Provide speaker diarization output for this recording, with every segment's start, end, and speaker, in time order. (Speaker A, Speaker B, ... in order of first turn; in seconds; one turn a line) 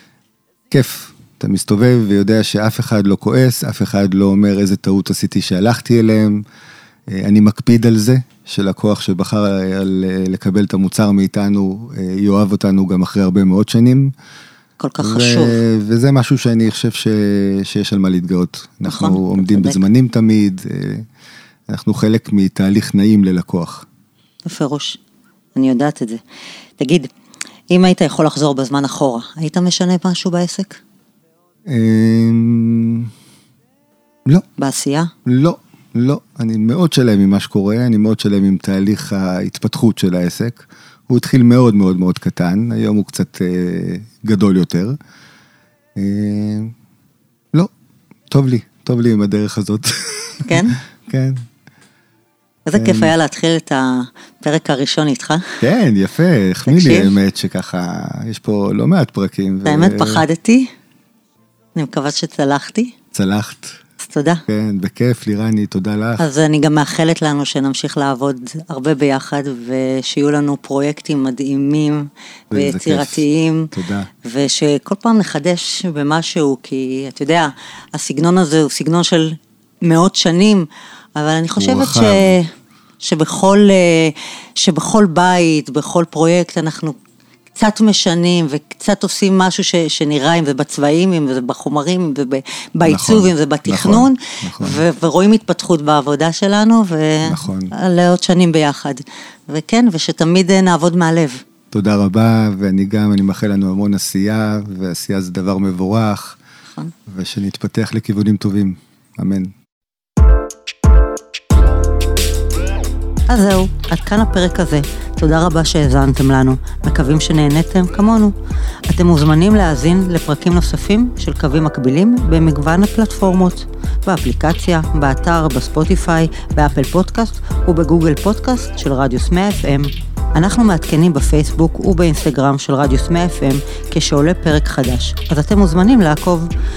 Speaker A: 0.7-6.4
Speaker A: 7.1-14.1
Speaker B: 14.8-15.6
Speaker A: 15.0-21.0
Speaker B: 18.8-19.8
Speaker A: 21.7-23.9
Speaker B: 24.4-25.0
Speaker B: 25.5-26.2
Speaker B: 26.8-27.1
Speaker B: 27.7-30.8
Speaker A: 31.7-33.1
Speaker B: 34.6-35.1
Speaker A: 35.2-45.0
Speaker A: 46.0-46.7
Speaker A: 48.3-51.4
Speaker B: 50.4-50.8
Speaker B: 52.6-55.5
Speaker A: 52.7-53.1
Speaker A: 55.6-60.2
Speaker B: 56.6-57.1
Speaker B: 59.6-60.7
Speaker B: 61.7-62.9
Speaker A: 63.1-63.8
Speaker B: 64.0-64.4
Speaker A: 64.5-66.3
Speaker B: 66.2-73.7
Speaker A: 72.5-74.1
Speaker B: 74.2-82.5
Speaker A: 81.5-82.4
Speaker B: 83.0-87.0
Speaker B: 87.5-101.4
Speaker A: 92.8-94.8
Speaker A: 97.2-97.7
Speaker A: 101.7-106.4
Speaker A: 107.1-109.5
Speaker B: 113.3-118.3
Speaker B: 118.9-136.5